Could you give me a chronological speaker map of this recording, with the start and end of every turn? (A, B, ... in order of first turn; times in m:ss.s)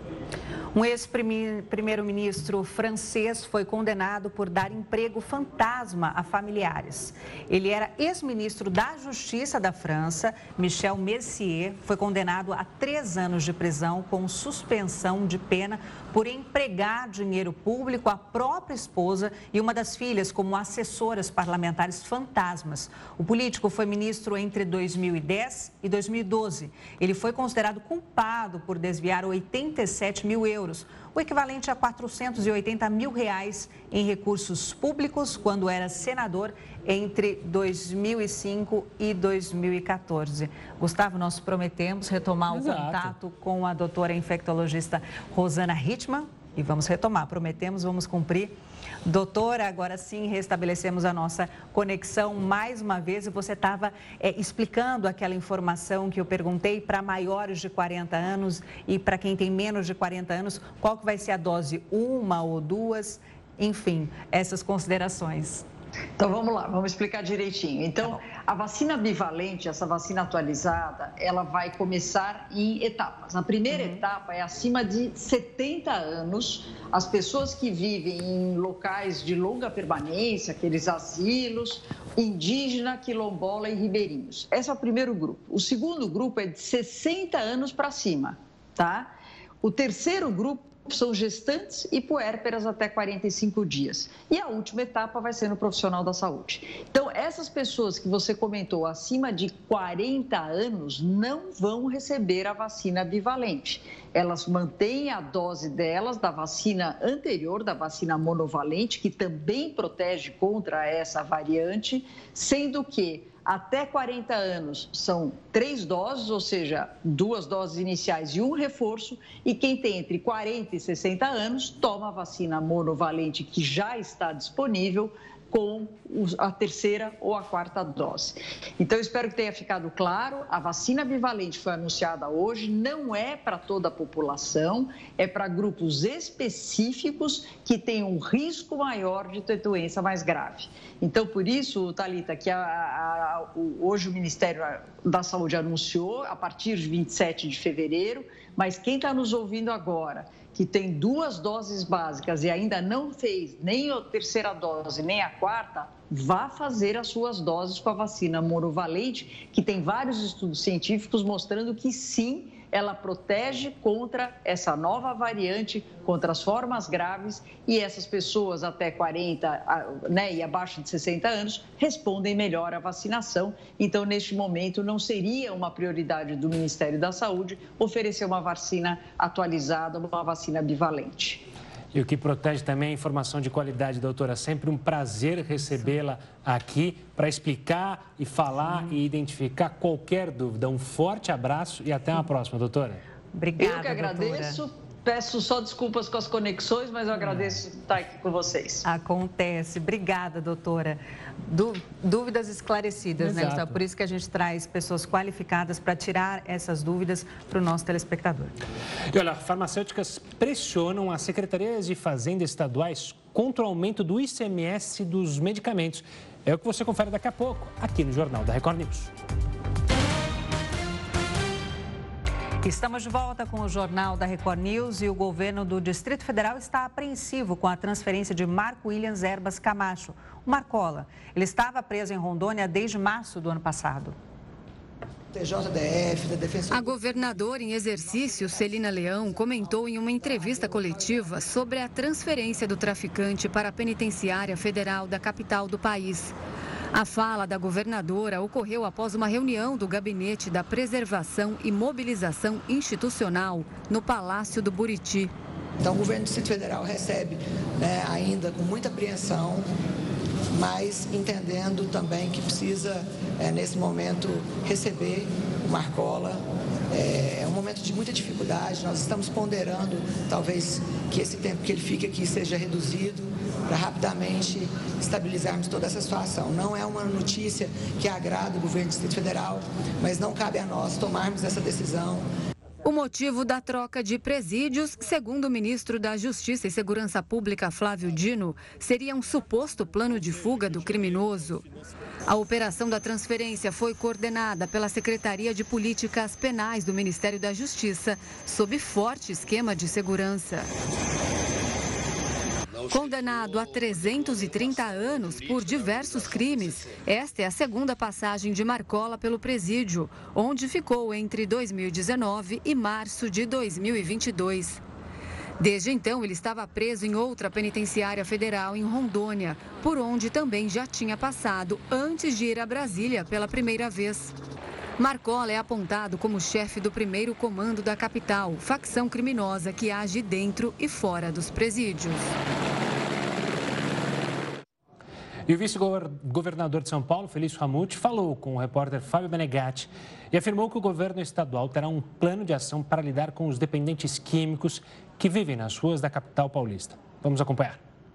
0:00.7-1:05.6 A
0:42.5-0:43.1 B
1:06.2-1:29.1 C
1:13.7-1:14.0 A
1:29.6-3:01.4 C
3:01.9-3:13.0 B
3:13.3-3:14.6 A
3:13.6-3:18.8 C
3:18.8-3:28.6 A
3:23.2-3:23.8 B
3:29.1-3:39.1 B
3:42.6-3:54.2 A
3:55.3-3:57.5 D
3:56.7-4:06.3 E
3:58.0-3:58.9 D
4:00.2-4:00.9 D
4:06.9-4:15.3 E
4:15.8-4:19.7 D
4:20.5-4:42.2 D
4:42.8-4:51.6 E
4:52.3-5:00.7 E
5:02.8-5:14.8 E
5:15.6-5:24.4 E
5:25.0-5:32.3 E
5:35.5-5:47.8 B